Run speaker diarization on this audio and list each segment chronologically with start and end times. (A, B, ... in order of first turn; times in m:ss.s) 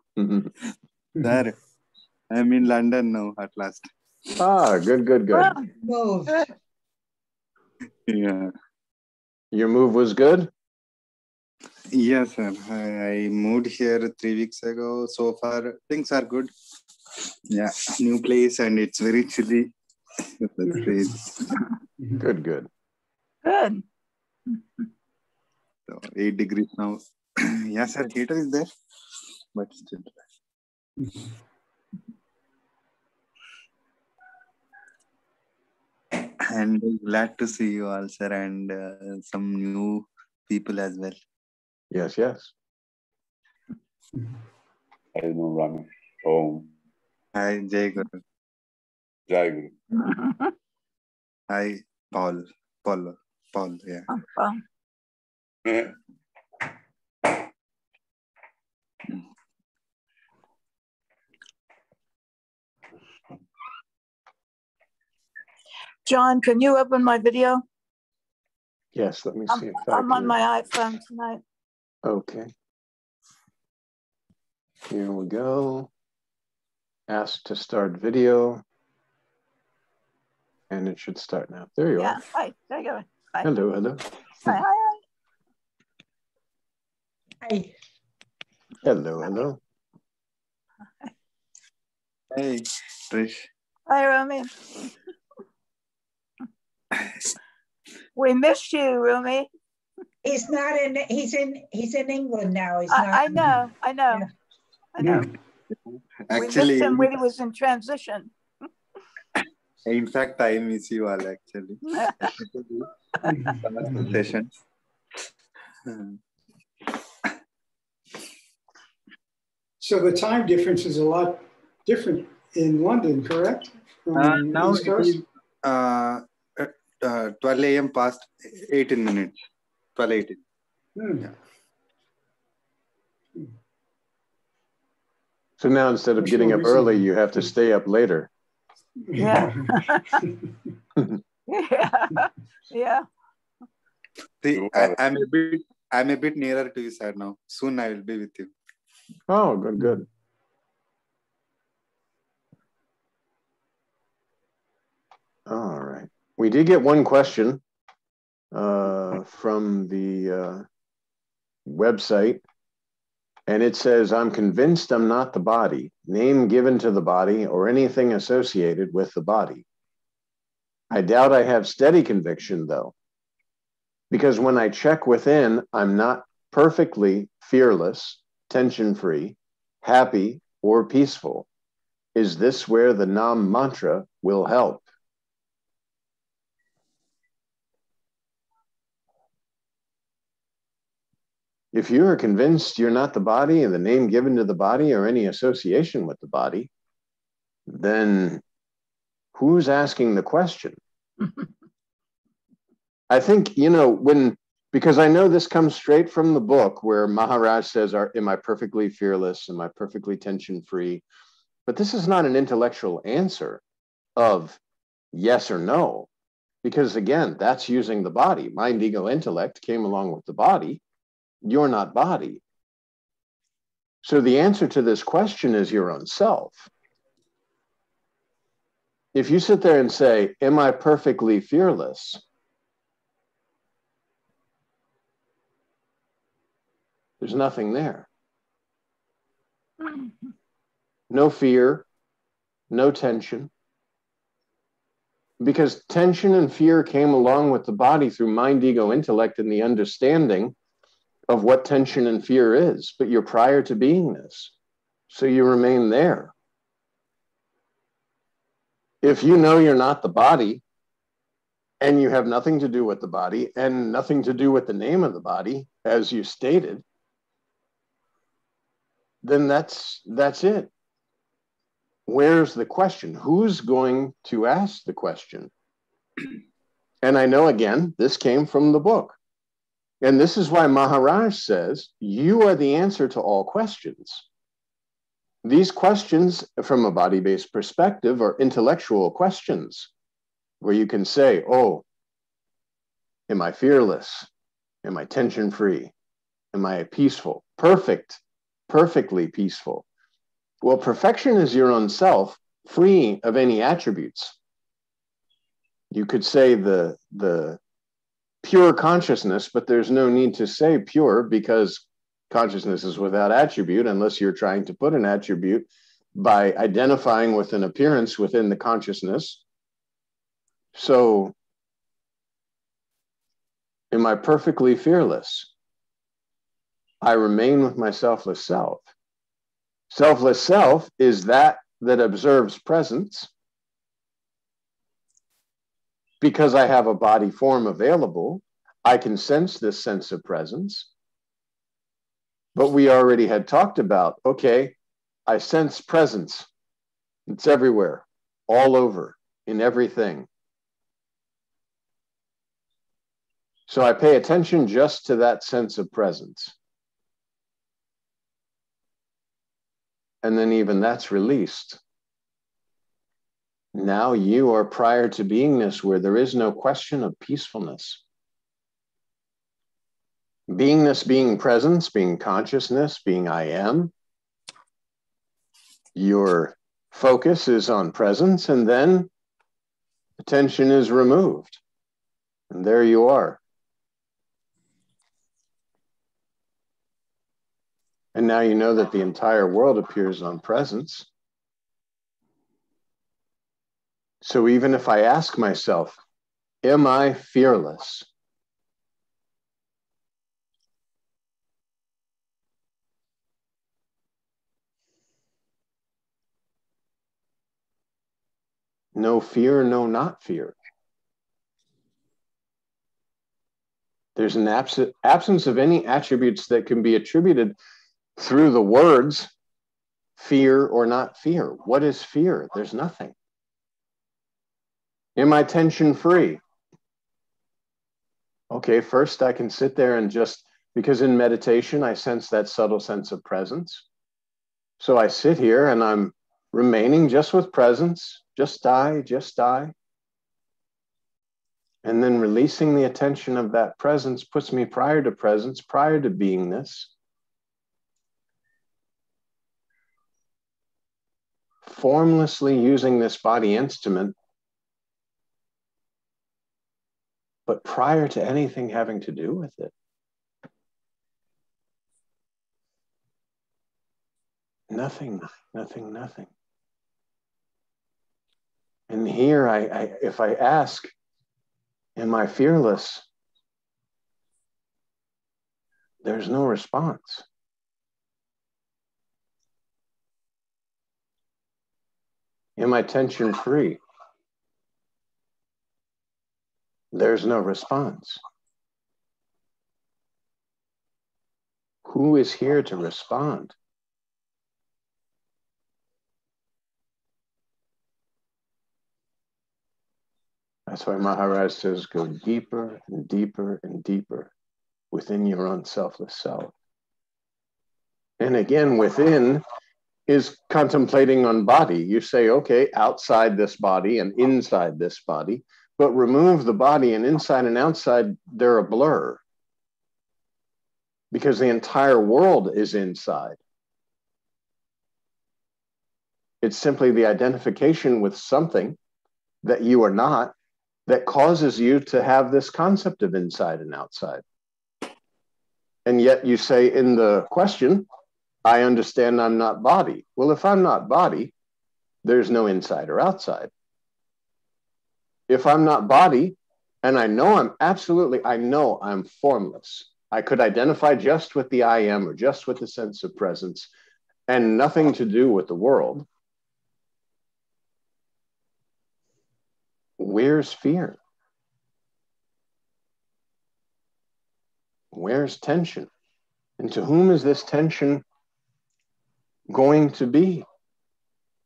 0:00.2-0:00.5 A
0:01.2-0:01.6 B
0:02.3-0:03.9 B
0:04.4-0:05.6 A
0:05.4-0:05.7 C
0:05.8-0:06.5 D
0:08.1-0:08.5 B
0:09.5-0:10.5 A
0:11.9-0:16.5 B
0:17.5-0:21.5 B
0:22.2-0:22.7 A
0:23.4-0:23.8 C
0:25.9-0:28.7 B
0:29.5-0:30.2 B
0:31.0-0:31.3 E
0:36.4-0:41.2 B
0:41.9-0:42.5 A
0:45.2-0:46.7 F
0:47.3-0:48.2 B
0:49.3-0:49.7 F
0:50.0-0:50.5 C
0:51.5-0:54.1 B
0:54.1-0:54.6 C
0:55.7-0:55.9 F
1:06.1-1:07.6 C
1:09.0-1:10.4 A
1:09.5-1:11.4 C
1:12.0-1:12.5 A
1:14.9-1:15.9 A
1:17.1-1:18.6 A
1:20.7-1:22.2 A
1:22.0-1:23.6 C
1:23.4-1:24.6 A
1:24.4-1:25.0 C
1:27.4-1:27.7 D
1:28.8-1:29.6 A
1:32.3-1:33.5 B
1:33.9-1:34.9 C
1:38.2-1:39.5 C
1:40.2-1:43.6 D
1:42.9-1:44.3 C
1:45.0-1:45.3 C
1:45.0-1:45.3 E
1:46.3-1:47.1 B
1:46.3-1:48.3 C
1:49.9-1:52.9 B
1:51.9-1:52.3 C
1:53.3-1:54.2 E
1:53.6-1:54.5 B
1:55.8-1:56.2 B
1:59.8-2:05.2 E
2:04.1-2:09.4 B
2:10.0-2:10.4 B
2:11.0-2:11.3 E
2:15.6-2:18.3 A
2:16.2-2:17.1 E
2:19.1-2:20.4 E
2:19.2-2:20.2 C
2:21.5-2:23.0 C
2:24.4-2:28.5 B
2:24.5-2:25.0 F
2:29.3-2:30.1 A
2:35.5-2:37.6 A
2:38.5-2:40.6 A
2:41.7-2:42.4 A
2:43.5-2:49.6 A
2:50.9-2:52.9 A
2:54.1-3:01.5 A
3:02.2-3:04.9 A
3:11.7-3:16.7 A
3:17.7-3:18.4 A
3:19.3-3:20.8 A
3:23.1-3:31.0 A
3:31.7-3:33.6 A
3:34.2-3:34.6 A
3:35.1-3:36.1 A
3:36.6-3:40.8 A
3:41.4-3:42.4 A
3:44.0-3:46.7 A
3:49.1-3:52.2 A
3:57.2-3:58.1 A
4:01.1-4:01.9 A
4:02.7-4:03.5 A
4:05.4-4:10.6 A
4:11.3-4:14.5 A
4:15.1-4:16.3 A
4:19.0-4:20.6 A
4:21.8-4:26.8 A
4:29.2-4:30.7 A
4:32.1-4:35.5 A
4:37.0-4:39.2 A
4:40.0-4:44.3 A
4:45.4-4:49.9 A
4:50.6-4:51.8 A
4:53.3-4:54.3 A
4:54.8-4:55.9 A
4:56.5-4:59.8 A
5:00.6-5:04.4 A
5:05.9-5:07.6 A
5:08.4-5:19.4 A
5:20.7-5:21.3 A
5:23.9-5:25.5 A
5:27.0-5:28.9 A
5:29.9-5:33.3 A
5:36.2-5:40.9 A
5:42.6-5:44.8 A
5:45.3-5:46.5 A
5:47.3-5:50.3 A
5:53.7-5:56.6 A
6:00.2-6:01.8 A
6:03.7-6:08.0 A
6:10.5-6:13.9 A
6:16.0-6:19.1 A
6:20.2-6:21.6 A
6:22.5-6:23.4 A
6:28.2-6:31.1 A
6:34.2-6:36.0 A
6:36.6-6:38.1 A
6:49.0-6:50.6 A
6:54.2-6:57.6 A
6:58.2-6:59.3 A
7:00.2-7:03.1 A
7:05.2-7:06.4 A
7:08.5-7:13.8 A
7:14.8-7:19.7 A
7:21.8-7:26.9 A
7:31.6-7:34.2 A
7:37.5-7:39.7 A
7:44.7-7:46.3 A
7:48.9-7:50.9 A
7:52.0-7:53.0 A
7:56.0-7:57.2 A
8:02.6-8:03.8 A
8:06.9-8:08.2 A
8:11.8-8:13.6 A
8:20.7-8:24.3 A
8:24.9-8:26.5 A
8:28.2-8:29.4 A
8:30.1-8:39.2 A
8:41.1-8:43.4 A
8:46.4-8:48.8 A
8:49.4-8:50.3 A
8:50.9-8:54.2 A
8:55.9-8:57.9 A
8:58.4-9:01.3 A
9:02.0-9:03.5 A
9:05.3-9:13.7 A
9:14.3-9:16.1 A
9:20.0-9:21.0 A
9:24.9-9:25.9 A
9:26.6-9:28.0 A
9:29.5-9:30.5 A